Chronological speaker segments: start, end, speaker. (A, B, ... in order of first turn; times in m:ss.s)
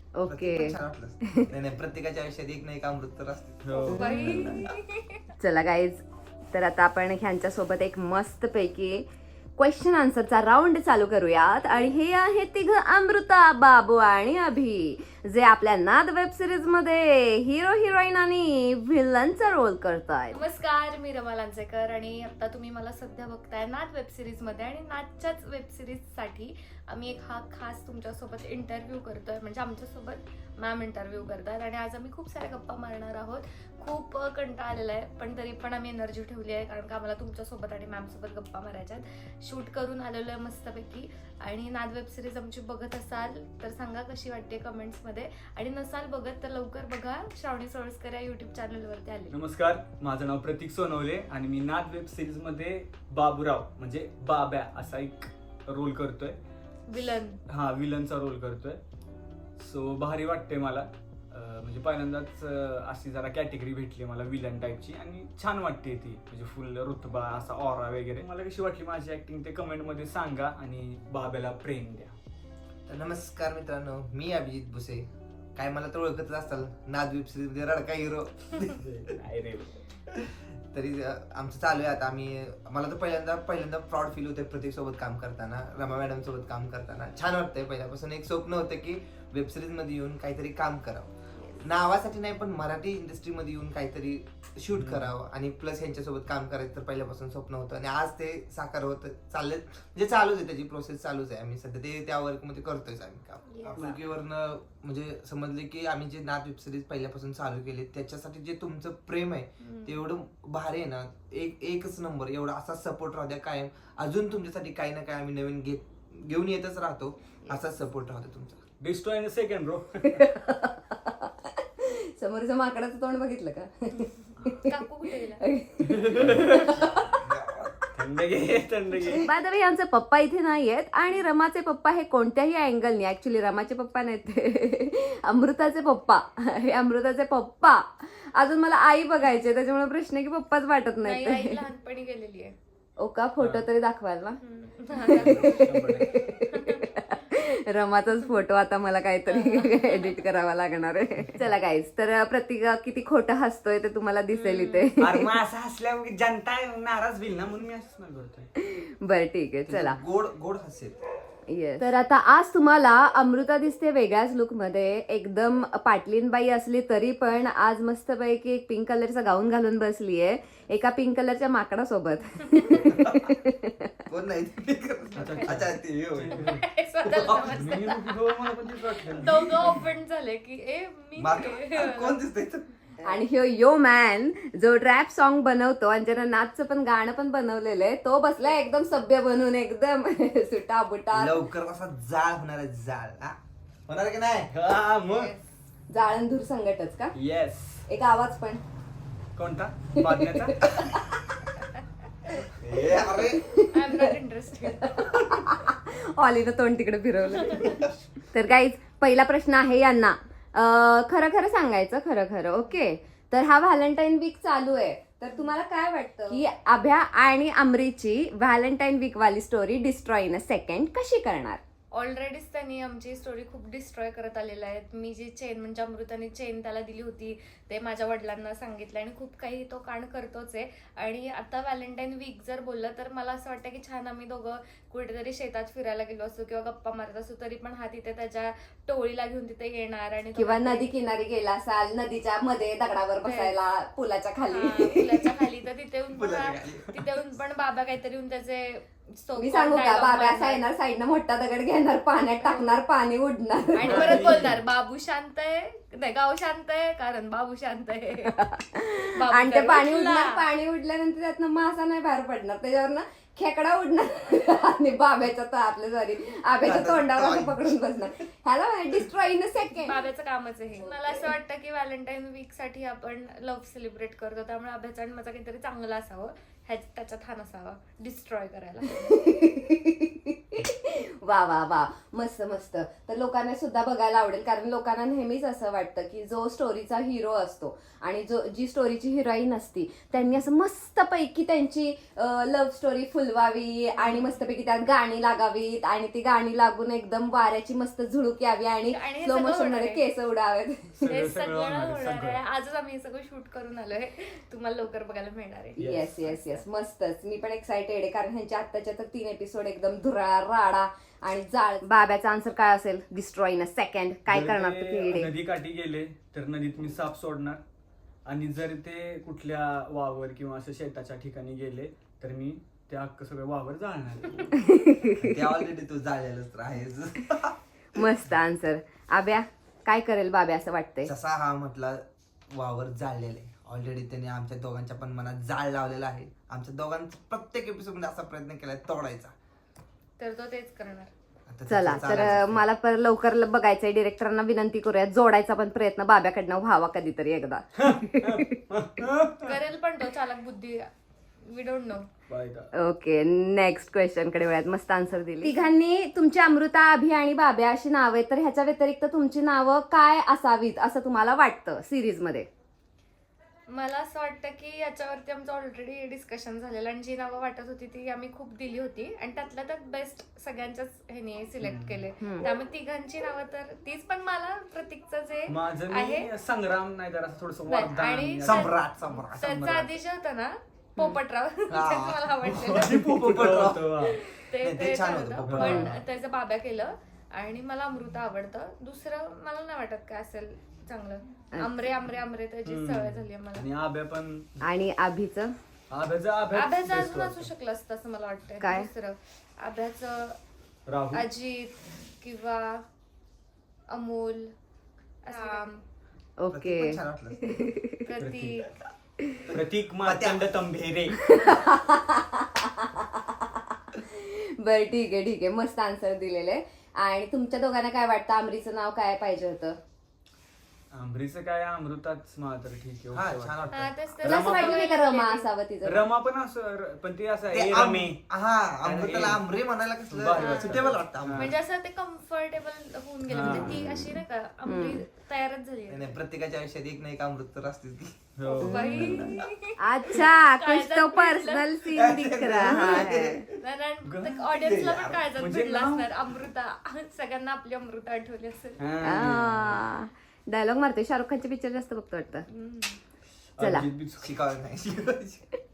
0:00.2-0:01.5 A
0:00.3-0:04.6 B
0:03.6-0:04.5 C
0:03.8-0:04.7 A
0:03.9-0:05.2 D
0:05.4-0:09.0 A
0:09.6-0:20.4 A
0:20.3-0:49.4 D
0:49.3-0:56.4 C
0:56.9-0:57.4 D
0:57.5-0:58.8 C
0:59.6-1:12.1 C
1:12.9-1:18.8 B
1:18.8-1:19.8 C
1:20.7-1:58.6 B
1:31.4-1:31.7 D
1:34.8-1:35.1 C
1:43.5-1:44.0 D
1:49.6-1:50.0 D
1:58.8-2:00.3 C
2:00.1-2:04.7 A
2:04.5-2:05.5 D
2:05.4-2:07.2 A
2:05.9-2:06.8 C
2:07.2-2:07.9 B
2:08.0-2:09.3 C
2:09.1-2:21.6 A
2:21.0-2:22.6 D
2:23.0-2:24.4 A
2:23.4-2:23.7 C
2:24.4-2:27.2 D
2:25.0-2:35.4 A
2:25.1-2:26.2 C
2:29.3-2:30.2 D
2:34.3-2:34.9 D
2:35.0-2:38.5 C
2:38.6-2:40.0 A
2:39.7-2:41.0 B
2:41.5-2:53.9 A
2:52.8-2:53.3 B
2:54.1-2:56.4 B
2:55.1-2:55.6 D
2:55.2-2:56.6 C
2:56.3-3:02.2 D
2:57.1-2:57.8 B
2:57.5-2:59.8 C
3:01.2-3:02.7 B
3:03.0-3:11.4 A
3:11.1-3:13.4 B
3:13.9-3:14.6 B
3:14.5-3:15.3 C
3:15.1-3:15.5 D
3:15.9-3:17.1 A
3:17.2-3:17.8 C
3:17.9-3:18.6 A
3:19.4-3:20.7 C
3:20.0-3:21.1 A
3:22.5-3:23.4 B
3:22.9-3:24.1 A
3:23.7-3:25.1 D
3:24.8-3:41.6 A
3:27.5-3:27.8 D
3:41.9-4:00.9 D
4:00.4-4:05.4 A
4:03.2-4:03.6 D
4:04.5-4:10.6 D
4:06.1-4:06.9 B
4:09.4-4:14.5 A
4:12.4-4:12.8 D
4:13.8-4:18.4 D
4:13.8-4:14.6 C
4:18.3-4:30.0 A
4:19.2-4:20.4 D
4:26.6-4:27.8 B
4:29.9-4:39.3 D
4:30.8-4:31.3 A
4:38.9-5:01.0 A
4:54.0-4:54.3 D
4:58.9-5:00.0 D
5:01.0-5:02.4 C
5:01.0-5:06.6 D
5:05.8-5:06.3 C
5:05.8-5:15.3 A
5:14.3-5:17.6 C
5:18.3-5:24.6 C
5:24.6-5:25.5 A
5:25.2-5:27.6 B
5:27.9-5:31.1 A
5:31.1-5:39.3 B
5:40.2-5:41.1 D
5:41.5-5:42.6 B
5:41.7-5:48.5 A
5:47.8-5:49.5 C
5:49.4-5:50.9 D
5:51.4-5:52.1 D
5:52.3-5:52.7 C
5:52.8-6:02.5 A
6:03.7-6:16.3 D
6:11.6-6:12.1 C
6:12.2-6:12.5 A
6:15.5-6:18.7 C
6:17.7-6:23.0 D
6:18.4-6:19.8 B
6:19.5-6:19.9 C
6:21.7-6:24.1 B
6:22.4-6:24.2 C
6:24.0-6:33.7 D
6:24.6-6:25.9 B
6:25.4-6:26.0 C
6:25.6-6:25.9 A
6:31.5-6:31.8 A
6:32.6-6:34.5 C
6:34.6-6:35.5 A
6:35.9-6:37.5 C
6:36.5-6:40.4 D
6:38.6-6:38.9 A
6:40.9-6:41.3 C
6:41.1-6:42.8 D
6:43.9-6:44.5 D
6:45.2-6:45.8 D
6:46.4-6:48.1 A
6:46.5-6:47.7 B
6:48.0-6:48.7 D
6:48.2-6:48.6 C
6:49.5-6:51.2 C
6:50.0-6:50.5 B
6:51.3-6:59.8 A
7:00.9-7:03.6 C
7:03.1-7:03.9 B
7:03.7-7:05.5 D
7:04.2-7:04.9 C
7:04.2-7:06.0 A
7:05.8-7:08.2 C
7:07.5-7:11.6 B
7:08.8-7:09.5 C
7:10.1-7:11.6 C
7:10.4-7:16.2 D
7:13.3-7:13.8 C
7:13.4-7:15.0 A
7:15.9-7:18.2 B
7:18.4-7:19.3 C
7:18.5-7:21.9 D
7:18.6-7:23.4 A
7:21.9-7:23.5 B
7:23.5-7:28.8 D
7:24.1-7:24.5 C
7:24.5-7:25.3 B
7:25.4-7:26.1 C
7:28.8-7:29.8 C
7:29.0-7:32.5 A
7:32.5-7:33.0 D
7:33.6-7:34.3 C
7:33.6-7:33.9 A
7:34.2-7:35.5 B